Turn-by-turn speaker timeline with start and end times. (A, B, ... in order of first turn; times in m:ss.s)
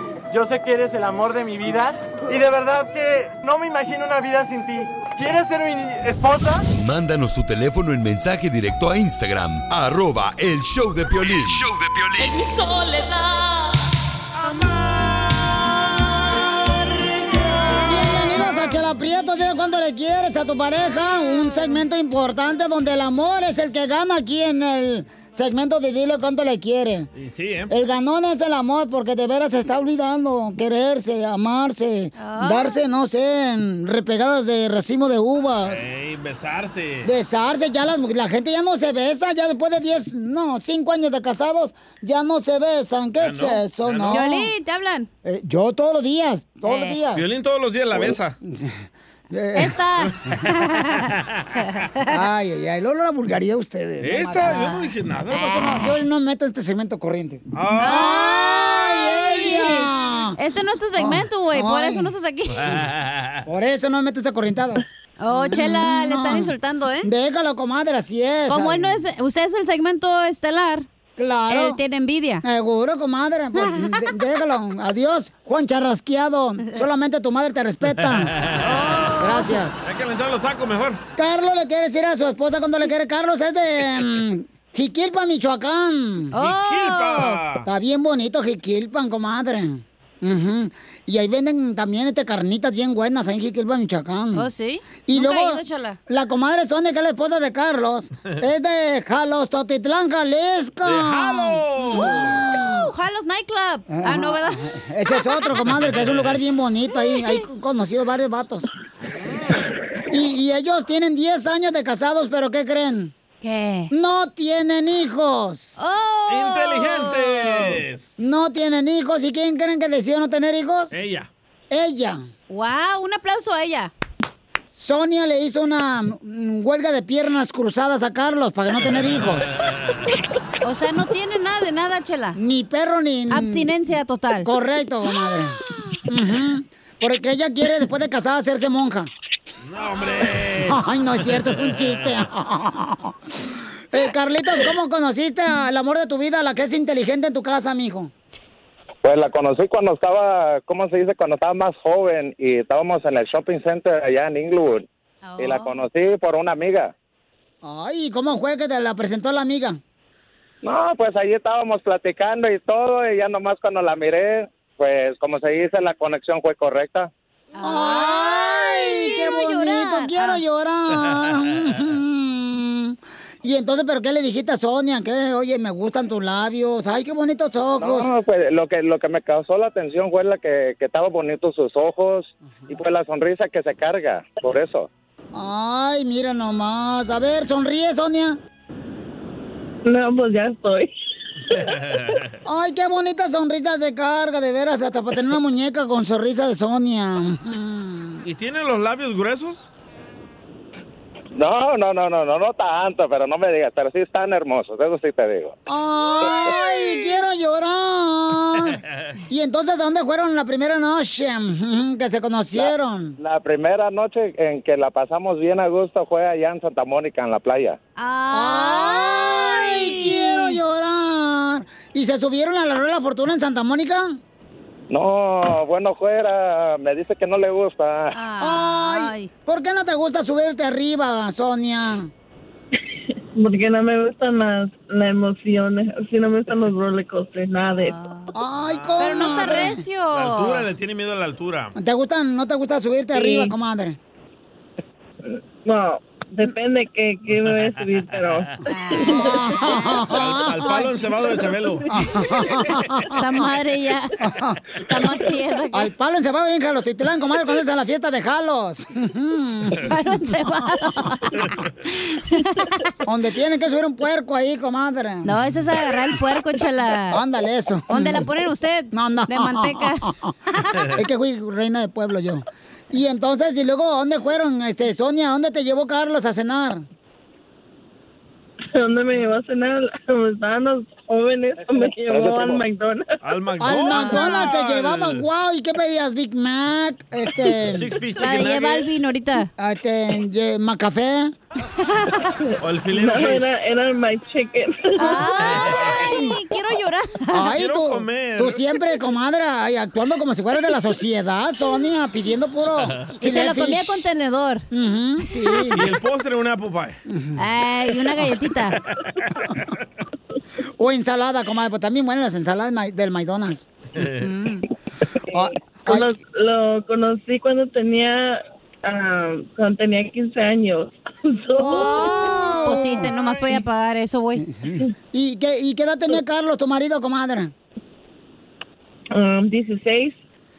0:00.3-0:06.6 A
0:06.7-0:12.4 B
0:12.5-0:12.9 C
0:17.8-0:27.1 D
0:27.1-0:27.7 E
0:27.7-0:35.9 D
0:32.2-0:32.8 C
0:35.6-0:37.1 E
0:37.0-0:44.5 D
0:43.2-0:44.2 E
0:44.1-0:45.1 C
0:45.2-0:47.2 D
0:46.7-0:47.0 C
0:47.1-0:48.4 E
0:47.9-0:49.8 D
0:49.6-0:51.0 C
0:52.1-0:54.8 D
0:54.0-0:55.9 E
0:55.3-0:55.8 C
0:55.5-1:00.4 D
0:57.5-0:58.2 E
0:57.8-1:02.7 C
1:01.0-1:02.1 D
1:02.5-1:03.4 E
1:03.4-1:09.0 D
1:05.2-1:07.1 C
1:08.5-1:10.9 C
1:11.2-1:11.8 D
1:11.5-1:12.4 C
1:12.4-1:18.3 D
1:18.0-1:19.0 E
1:18.6-1:19.6 C
1:19.2-1:19.8 D
1:19.8-1:21.0 E
1:21.2-1:26.3 D
1:26.3-1:27.4 C
1:26.4-1:27.7 E
1:27.6-1:34.4 D
1:34.3-1:36.0 C
1:35.1-1:42.9 D
1:40.8-1:42.4 E
1:41.9-1:45.6 C
1:43.9-1:48.7 D
1:45.7-1:46.4 E
1:49.2-1:49.7 E
1:50.1-1:53.1 D
1:53.4-1:53.9 C
1:53.9-1:55.8 D
1:55.8-1:57.8 C
1:56.3-1:58.1 E
1:58.2-2:00.9 D
2:00.9-2:01.3 E
2:01.7-2:02.2 D
2:02.5-2:03.9 C
2:04.7-2:09.5 D
2:08.9-2:10.0 E
2:10.6-2:12.4 C
2:12.3-2:13.7 D
2:13.3-2:14.5 C
2:14.4-2:19.1 D
2:19.6-2:22.1 E
2:20.6-2:28.1 D
2:29.0-2:34.8 F
2:35.2-2:35.8 C
2:35.4-2:36.9 F
2:37.6-2:39.8 D
2:40.6-2:47.1 F
2:47.5-2:50.4 C
2:47.6-2:58.1 D
2:57.8-3:04.9 F
3:05.3-3:08.4 D
3:09.8-3:10.9 G
3:11.5-3:12.3 E
3:12.4-3:18.2 D
3:18.2-3:19.7 E
3:21.4-3:25.5 F
3:25.7-3:33.2 D
3:32.5-3:37.8 F
3:38.0-3:40.6 C
3:38.3-3:44.2 D
3:44.9-3:48.2 F
3:48.1-3:49.3 C
3:48.4-3:52.1 D
3:53.4-3:58.0 G
3:57.8-3:58.3 C
3:58.3-3:59.8 D
3:58.7-3:59.6 E
3:59.0-4:00.7 C
4:00.1-4:01.7 E
4:01.8-4:04.0 D
4:03.2-4:03.5 G
4:05.3-4:09.5 G
4:07.3-4:08.5 E
4:08.7-4:10.0 C
4:09.0-4:10.9 D
4:10.0-4:12.0 E
4:11.9-4:13.4 D
4:13.1-4:14.1 C
4:14.2-4:14.6 D
4:14.9-4:15.9 C
4:15.7-4:20.0 D
4:19.8-4:21.3 C
4:22.1-4:22.8 C
4:23.0-4:25.3 D
4:25.2-4:27.2 C
4:27.1-4:28.3 D
4:27.9-4:30.8 C
4:28.9-4:30.3 D
4:30.9-4:36.8 D
4:38.7-4:43.1 G
4:41.8-4:42.6 F
4:43.2-4:45.2 E
4:43.6-4:47.9 D
4:43.9-4:44.5 C
4:47.4-4:48.9 E
4:48.2-4:49.5 C
4:49.6-4:51.4 D
4:51.8-4:52.3 C
4:52.6-4:53.5 E
4:52.9-4:55.2 G
4:55.0-4:57.5 C
4:55.0-4:55.3 D
4:55.4-4:56.3 E
4:56.0-4:56.2 D
4:57.3-5:04.0 D
4:57.5-4:58.7 E
5:03.2-5:04.6 C
5:04.7-5:05.9 D
5:05.7-5:07.0 E
5:07.1-5:07.4 D
5:07.4-5:08.8 C
5:10.8-5:14.6 D
5:14.0-5:14.3 E
5:15.3-5:16.1 D
5:15.4-5:22.3 G
5:21.6-5:23.1 D
5:22.6-5:24.4 C
5:23.1-5:23.4 E
5:24.4-5:27.5 D
5:29.1-5:30.2 G